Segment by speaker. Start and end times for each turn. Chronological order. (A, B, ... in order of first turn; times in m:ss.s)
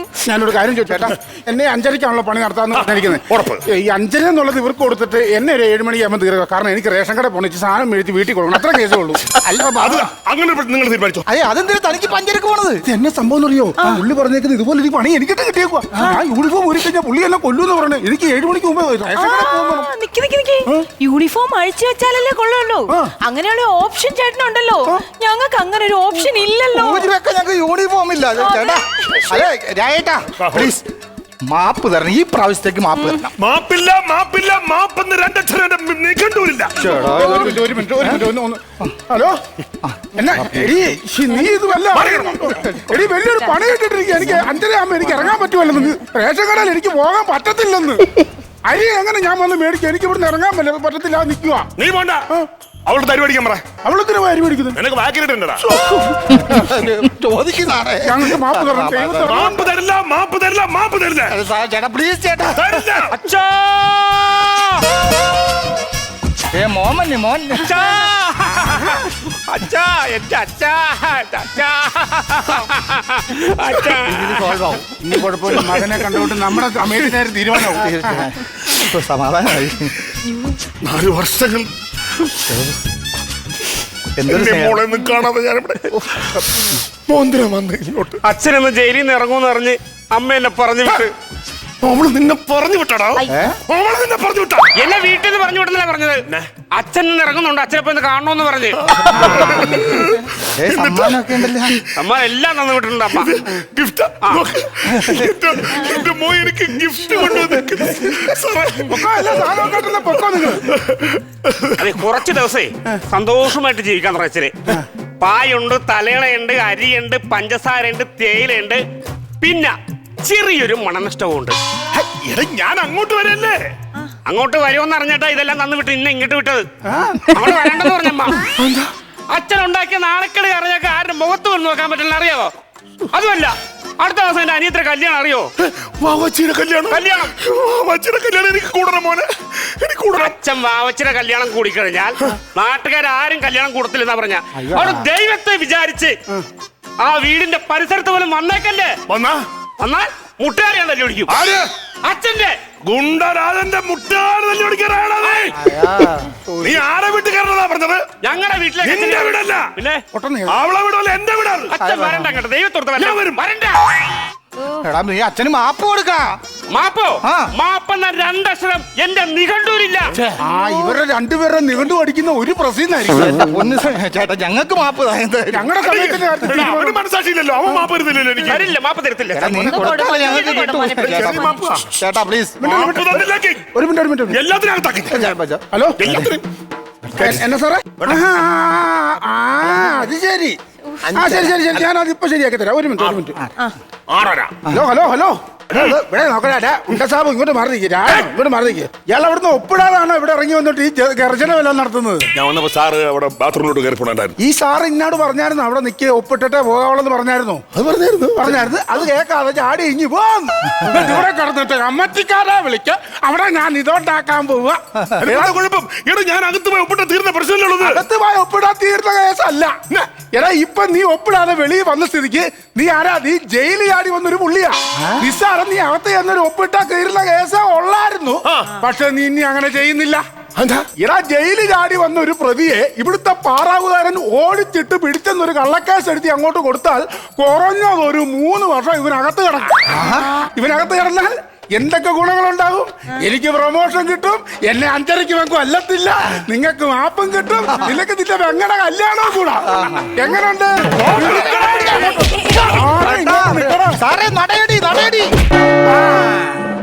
0:00.2-0:09.2 A
0:02.7-0:03.6 B
0:09.4-0:10.1 C
0:09.8-0:11.2 B
0:11.3-0:12.8 C
0:12.8-0:19.9 A
0:19.1-0:27.1 D
0:26.7-0:30.9 C
0:28.4-0:29.5 D
0:30.4-0:30.7 B
0:31.4-0:33.3 C
0:33.4-0:36.8 B
0:36.8-0:38.2 C
0:36.9-0:39.4 A
0:40.1-0:48.1 A
0:41.9-0:42.8 B
0:48.6-0:51.7 A
0:51.8-0:52.2 B
0:52.8-0:53.6 B
0:53.8-0:54.8 A
0:54.7-0:55.6 B
0:55.6-0:56.1 A
0:56.2-0:59.5 C
0:58.0-0:59.7 A
0:59.2-1:01.3 B
1:01.3-1:02.9 C
1:02.5-1:03.1 B
1:03.1-1:04.8 E
1:06.5-1:07.8 C
1:07.5-1:14.6 E
1:14.0-1:14.9 C
1:15.0-1:18.3 A
1:15.6-1:16.1 B
1:17.7-1:20.1 C
1:20.8-1:21.7 B
1:22.5-1:22.8 C
1:24.2-1:24.8 C
1:24.2-1:28.2 B
1:25.9-1:26.4 C
1:28.2-1:31.1 E
1:31.8-1:34.8 B
1:33.3-1:33.6 C
1:34.7-1:38.8 E
1:38.8-1:41.9 B
1:39.1-1:41.8 C
1:41.9-1:43.3 E
1:43.1-1:51.8 B
1:44.9-1:45.2 C
1:48.8-1:50.7 A
1:51.8-1:54.7 E
1:55.2-1:58.8 E
1:59.4-2:01.6 E
2:01.9-2:03.6 B
2:04.2-2:06.6 E
2:06.9-2:07.4 A
2:07.3-2:08.4 E
2:08.6-2:08.9 B
2:09.3-2:12.5 E
2:13.1-2:15.5 E
2:15.6-2:20.3 B
2:16.9-2:17.3 E
2:20.2-2:26.2 E
2:24.7-2:25.0 A
2:27.0-2:29.0 E
2:29.1-2:29.4 B
2:29.8-2:31.3 E
2:31.3-2:31.7 B
2:32.0-2:32.6 E
2:32.8-2:35.7 B
2:35.5-2:36.8 C
2:36.6-2:38.0 B
2:38.2-2:40.0 E
2:38.8-2:39.7 B
2:40.1-2:40.6 A
2:40.5-2:41.8 B
2:41.7-2:43.8 E
2:41.8-2:42.3 C
2:43.0-2:43.4 B
2:44.8-2:46.4 C
2:46.7-2:50.1 E
2:47.2-2:47.5 C
2:50.4-2:53.5 A
2:53.1-2:55.7 C
2:55.5-2:57.0 A
2:55.8-2:58.7 B
2:58.4-2:59.8 E
2:59.3-3:02.6 C
2:59.7-3:01.6 D
3:01.0-3:01.9 B
3:02.6-3:04.4 A
3:02.6-3:03.6 B
3:04.3-3:05.3 B
3:05.1-3:06.4 C
3:05.7-3:06.2 A
3:06.0-3:06.4 B
3:07.1-3:07.4 C
3:07.2-3:10.6 A
3:08.0-3:08.2 B
3:11.0-3:11.8 B
3:11.1-3:13.4 A
3:14.1-3:14.5 B
3:14.7-3:22.3 A
3:22.3-3:24.4 B
3:24.4-3:27.6 A
3:27.7-3:28.6 B
3:28.4-3:35.6 A
3:35.2-3:38.0 B
3:37.8-3:50.2 A
3:48.4-3:48.7 B
3:50.6-3:50.9 B
3:51.0-3:59.8 A
3:59.9-4:00.4 C
4:00.4-4:14.0 A
4:09.6-4:10.4 C
4:10.9-4:12.6 B
4:11.0-4:15.3 C
4:16.1-4:16.4 C